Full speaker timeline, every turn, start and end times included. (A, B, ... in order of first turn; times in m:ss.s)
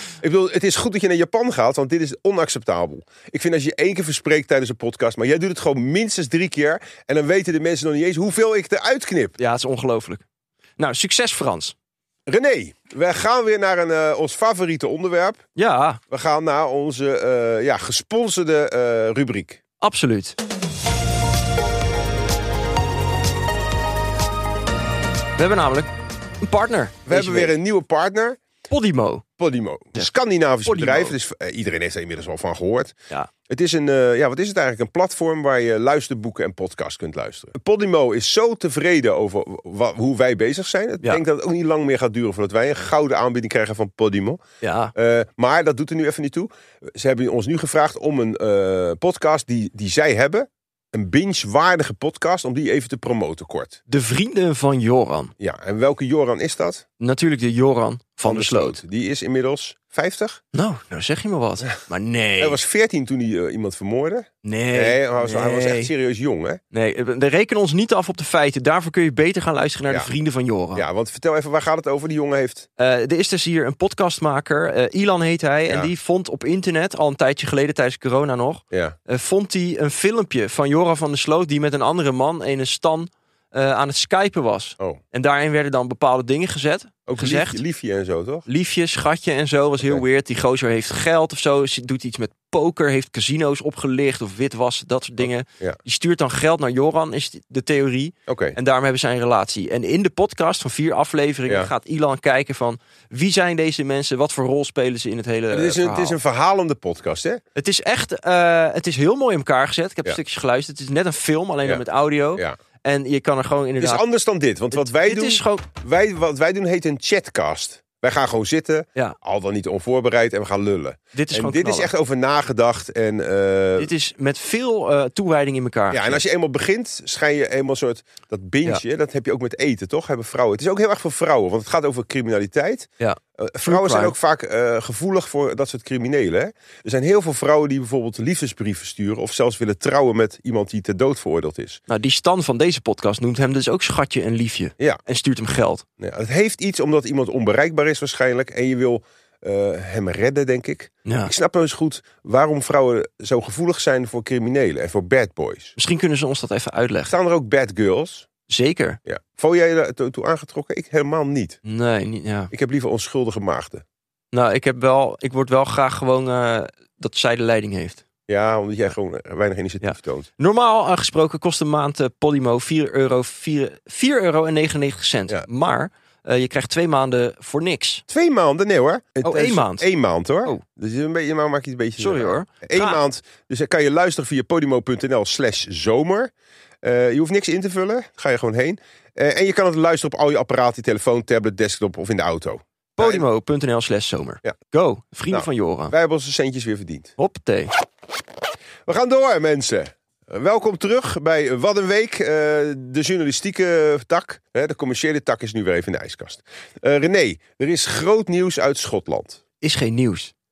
0:00.2-0:09.4 A
0:09.4-0:10.2 B
0:10.8-0:11.8 B
0:12.3-0:15.5 A
0:15.6-0:16.0 B
0:16.1-0:19.6 A
0:19.8-0:20.4 B
0:25.4-0:25.9 B
0:26.4-0:27.5 B
0:27.1-0:28.4 A
0:28.7-0:29.2 B
0:29.4-0:33.0 A
0:30.6-0:31.1 B
0:33.5-0:44.4 A
0:44.6-0:44.9 B
0:45.0-0:53.8 A
0:53.9-0:55.3 B
0:55.4-0:56.8 A
0:57.0-0:58.8 B
0:58.2-1:00.4 A
1:00.5-1:02.6 B
1:02.4-1:06.6 A
1:04.4-1:05.9 B
1:06.7-1:10.8 B
1:10.8-1:12.7 A
1:12.8-1:27.6 B
1:18.7-1:19.0 A
1:27.1-1:28.5 A
1:28.5-1:46.2 B
1:38.3-1:38.6 A
1:41.5-1:41.7 A
1:45.5-1:47.4 A
1:47.6-1:54.0 B
1:51.6-1:52.6 A
1:53.8-2:03.9 A
1:54.7-1:55.7 B
2:01.1-2:01.9 B
2:03.8-2:06.2 B
2:05.9-2:21.8 A
2:13.0-2:14.2 B
2:21.9-2:25.8 B
2:26.0-2:35.8 A
2:31.0-2:31.3 B
2:35.8-2:37.1 B
2:37.1-2:38.3 A
2:38.5-2:39.0 B
2:39.1-2:41.6 A
2:41.6-2:42.5 B
2:42.5-2:43.8 A
2:44.3-2:48.0 B
2:48.3-2:50.3 A
2:49.8-2:58.0 B
2:58.1-3:06.3 A
2:59.2-2:59.9 B
3:02.0-3:03.0 B
3:06.8-3:13.2 A
3:13.0-3:15.9 B
3:15.3-3:17.1 A
3:17.2-3:17.7 B
3:18.9-3:29.4 A
3:29.6-3:30.3 B